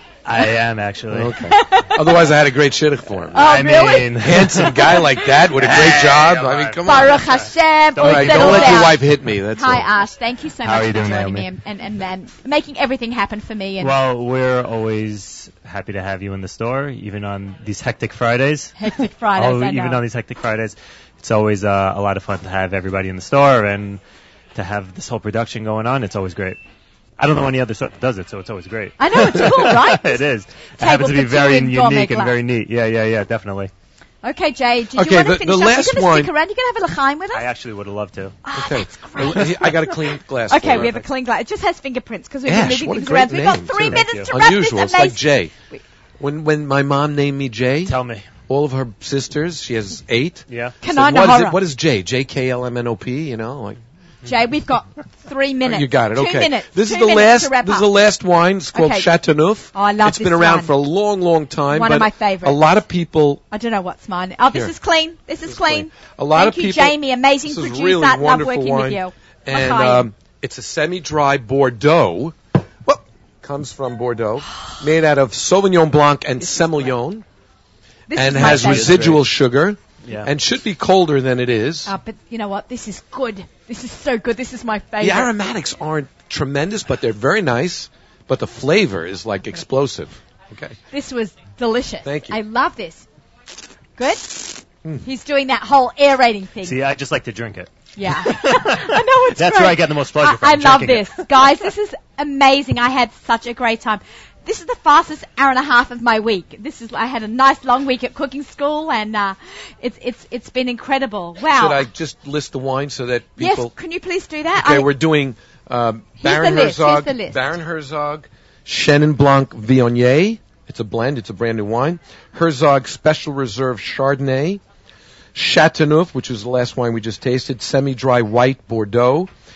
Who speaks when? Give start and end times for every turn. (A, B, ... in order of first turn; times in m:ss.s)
0:00.2-0:01.4 A
0:01.1-0:03.5 B
0:01.5-0:02.3 C
0:03.3-0:09.0 A
0:03.3-0:04.1 C
0:04.2-0:07.2 B
0:04.7-0:05.0 C
0:06.8-0:09.0 C
0:08.0-0:09.9 B
0:09.5-0:14.0 C
0:10.6-0:11.5 A
0:13.8-0:18.8 A
0:18.8-0:20.0 C
0:19.3-0:24.0 A
0:24.5-0:26.6 A
0:27.2-0:33.7 A
0:29.0-0:30.2 C
0:30.8-0:32.4 C
0:34.2-0:37.5 C
0:35.0-0:36.3 B
0:37.3-0:38.4 A
0:38.4-0:39.9 C
0:38.5-0:40.9 B
0:39.2-0:39.8 A
0:40.5-0:45.8 C
0:40.6-0:41.0 A
0:42.4-0:45.5 B
0:43.7-0:44.3 A
0:46.2-0:47.9 B
0:47.9-0:48.3 A
0:48.5-0:53.8 B
0:50.5-0:50.8 A
0:50.8-0:51.6 C
0:54.2-0:57.9 C
0:55.6-1:03.4 B
0:58.7-0:59.1 C
0:59.7-1:00.7 C
1:01.7-1:02.6 C
1:03.5-1:10.1 C
1:05.4-1:17.2 B
1:18.1-1:19.1 C
1:18.1-1:21.9 B
1:18.3-1:19.3 A
1:20.0-1:20.3 A
1:21.8-1:25.3 C
1:25.0-1:30.8 B
1:30.9-1:33.0 C
1:32.0-1:32.4 B
1:34.0-1:36.8 C
1:36.6-1:41.6 A
1:38.0-1:51.9 C
1:51.5-1:53.7 B
1:53.4-1:54.9 C
1:54.5-2:04.6 B
1:56.2-1:57.4 C
2:05.3-2:09.3 B